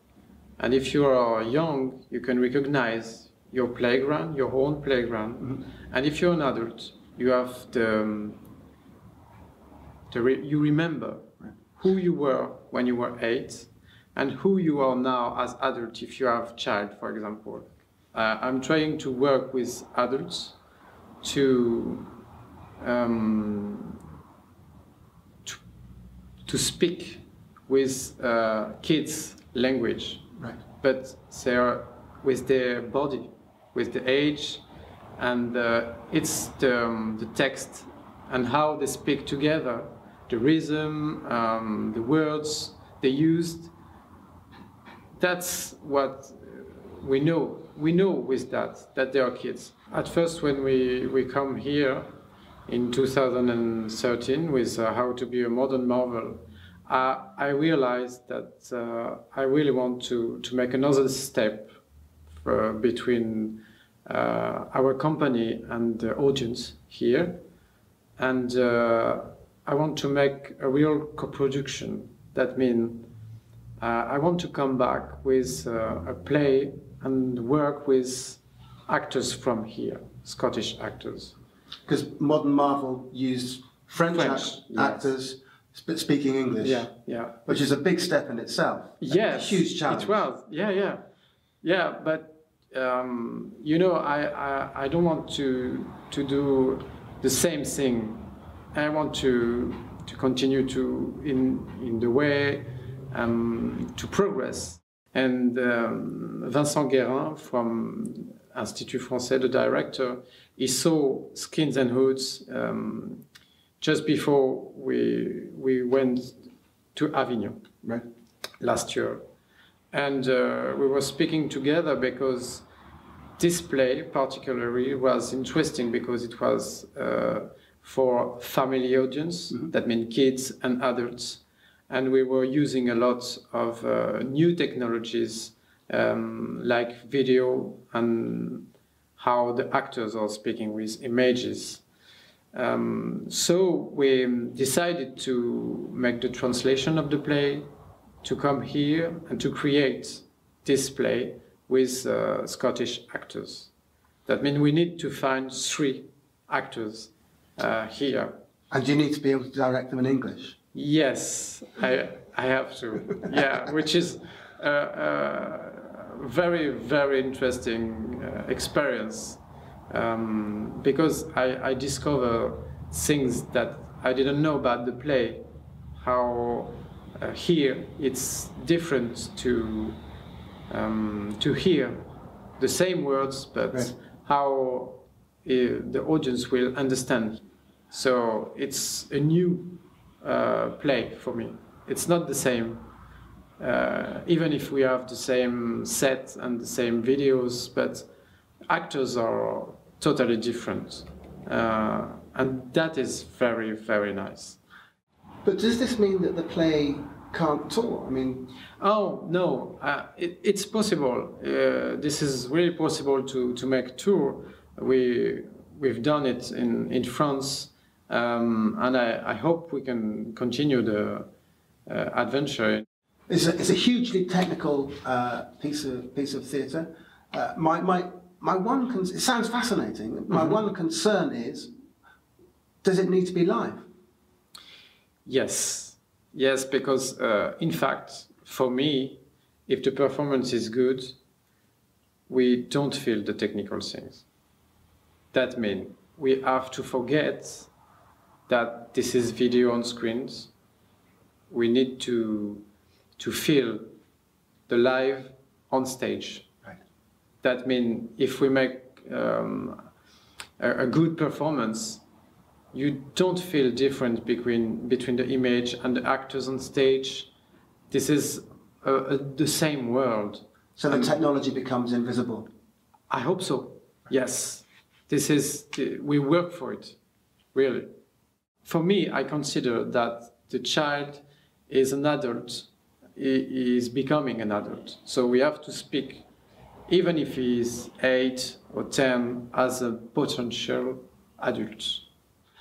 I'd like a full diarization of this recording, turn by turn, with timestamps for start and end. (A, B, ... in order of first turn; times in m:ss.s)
0:00.6-0:08.4 A
0:10.1-0:20.6 A
0:21.2-0:22.1 A
0:22.8-0:23.9 A
0:26.4-0:30.2 A
0:30.8-0:34.6 A
0:35.2-0:43.7 A
0:45.2-0:52.1 A
0:52.7-1:01.7 A
1:02.3-1:07.4 A
1:08.2-1:13.1 A
1:13.8-1:21.3 A
1:21.8-1:26.9 B
1:24.1-1:25.1 A
1:26.6-1:27.6 A
1:27.4-1:30.2 B
1:29.0-1:31.0 A
1:31.6-1:53.2 A
1:53.8-1:56.4 A
1:56.9-1:57.6 A
1:58.6-1:59.2 A
1:59.9-2:02.6 A
2:03.4-2:21.8 A
2:22.5-2:27.7 A
2:28.2-2:33.7 A
2:34.2-2:38.4 A
2:38.7-2:40.6 B
2:40.7-2:55.4 A
2:56.0-3:00.0 A
3:00.7-3:02.1 A
3:02.6-3:12.8 A
3:13.6-3:18.1 A
3:18.7-3:24.6 A
3:25.4-3:28.5 B
3:28.8-3:41.3 A
3:41.9-3:42.8 A
3:43.3-3:51.7 B
3:52.8-3:53.8 B
3:55.2-4:01.2 A
4:02.3-4:04.2 A
4:05.3-4:07.7 A
4:08.5-4:10.5 A
4:11.5-4:12.6 A
4:13.2-4:13.9 A
4:14.7-4:16.5 A
4:17.4-4:19.9 A
4:20.6-4:22.0 A
4:22.7-4:27.3 A
4:27.9-4:31.1 A
4:30.8-4:32.5 B
4:33.1-4:37.0 A
4:37.5-4:37.9 A
4:38.6-4:46.2 A
4:46.9-4:52.0 A